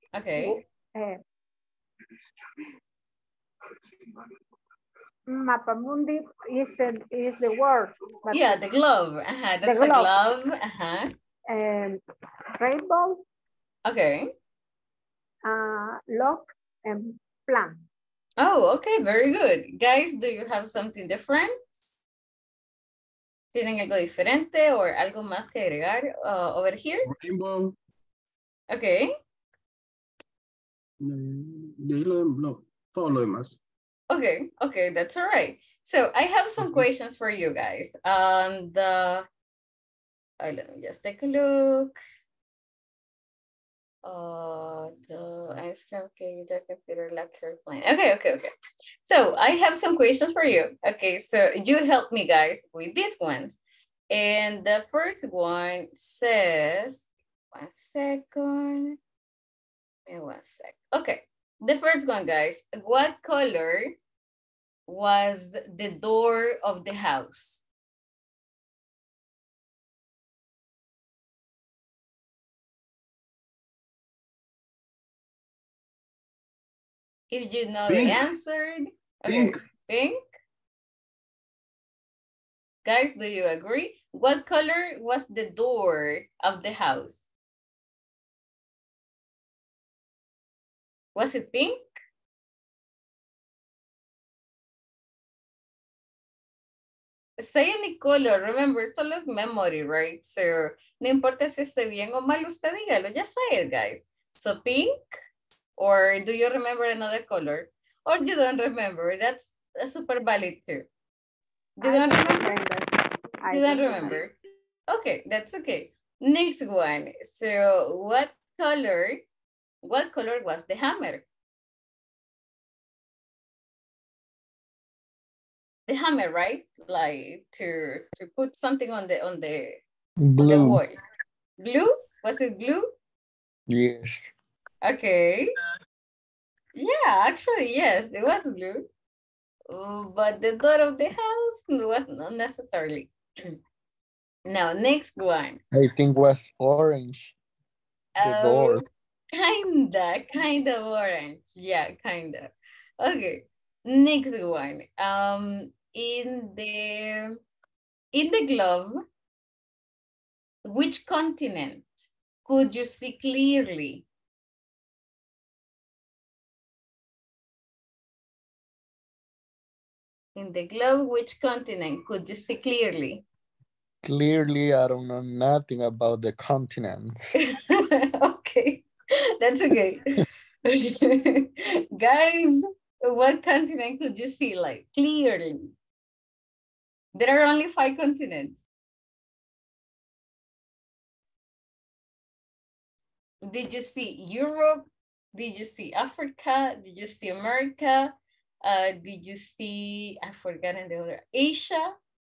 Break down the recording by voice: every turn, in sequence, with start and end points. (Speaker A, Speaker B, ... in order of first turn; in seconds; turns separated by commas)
Speaker A: 0.1-0.6, Speaker B: 0.4-1.2, Speaker B: 5.3-8.6, Speaker A: 8.3-11.1, Speaker B: 9.6-10.1, Speaker B: 11.5-12.0, Speaker B: 12.6-13.2, Speaker A: 13.8-14.3, Speaker B: 15.4-17.9, Speaker A: 18.4-21.8, Speaker A: 23.5-27.1, Speaker C: 27.0-27.7, Speaker A: 28.7-29.1, Speaker C: 31.0-33.6, Speaker A: 34.1-39.2, Speaker A: 40.4-42.0, Speaker A: 44.0-48.5, Speaker A: 49.1-53.6, Speaker A: 54.1-59.0, Speaker A: 60.1-63.9, Speaker A: 64.9-67.6, Speaker A: 77.3-80.2, Speaker C: 77.9-78.2, Speaker A: 82.8-87.3, Speaker A: 91.1-91.8, Speaker A: 97.4-104.9, Speaker A: 105.8-110.9, Speaker A: 111.8-112.6, Speaker B: 111.8-112.9, Speaker B: 113.4-114.2, Speaker A: 113.5-114.3, Speaker A: 114.9-119.2, Speaker A: 119.8-121.2, Speaker A: 125.9-129.8, Speaker D: 130.2-130.8, Speaker A: 130.4-130.9, Speaker A: 131.6-132.9, Speaker D: 133.7-134.3, Speaker A: 134.8-135.5, Speaker A: 136.7-138.9, Speaker A: 139.7-143.6, Speaker A: 144.4-145.6, Speaker D: 145.7-147.3, Speaker A: 148.2-157.4, Speaker D: 148.2-148.8, Speaker A: 158.1-159.0, Speaker A: 160.6-164.1, Speaker A: 170.3-173.2, Speaker D: 174.0-177.3, Speaker A: 177.4-178.9, Speaker A: 179.4-185.7, Speaker A: 187.1-188.6, Speaker A: 193.4-198.1, Speaker A: 198.6-201.9